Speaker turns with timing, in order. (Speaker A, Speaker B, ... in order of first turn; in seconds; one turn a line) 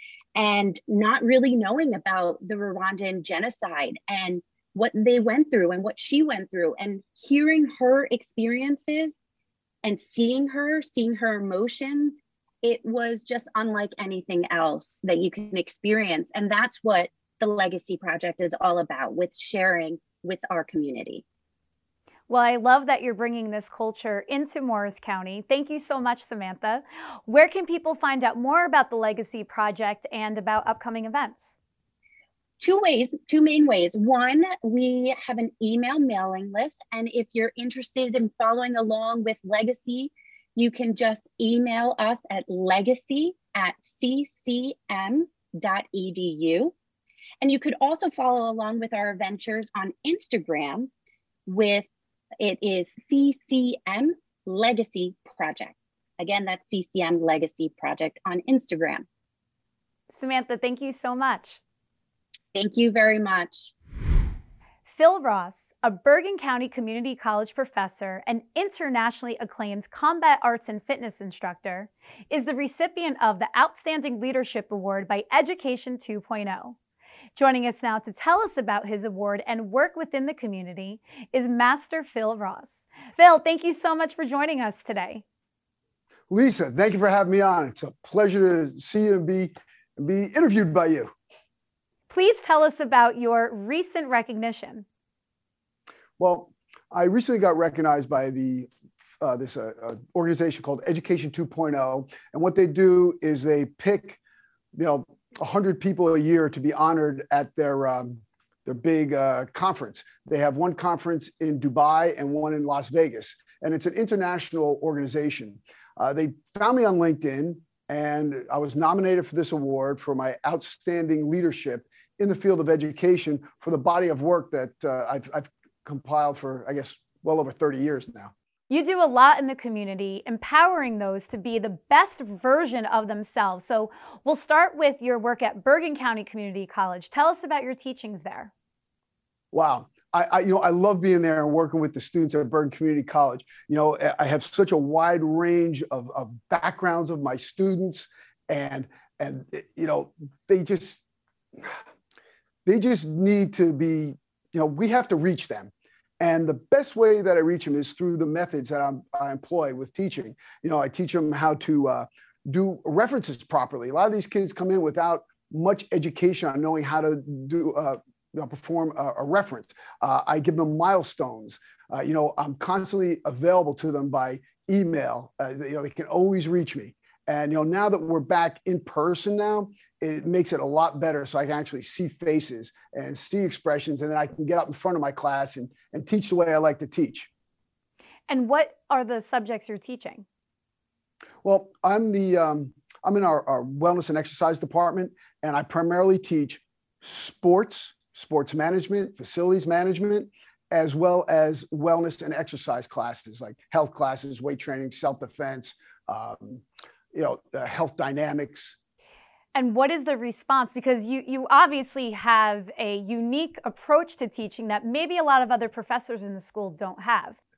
Speaker A: 0.3-9.2
Speaker A: 9.8-21.2
Speaker B: 22.3-31.5
Speaker A: 32.6-46.7
Speaker A: 47.4-50.9
Speaker A: 51.5-51.9
Speaker A: 52.4-59.0
Speaker B: 60.1-61.6
Speaker A: 62.5-63.7
Speaker B: 64.9-76.8
Speaker B: 77.3-85.2
Speaker C: 86.3-91.1
Speaker B: 92.1-94.8
Speaker C: 96.2-104.2
Speaker C: 104.7-128.3
Speaker B: 128.7-138.5
Speaker C: 139.5-151.0
Speaker C: 152.6-187.3
Speaker B: 188.3-190.2
Speaker C: 191.4-208.8
Speaker B: 209.5-217.4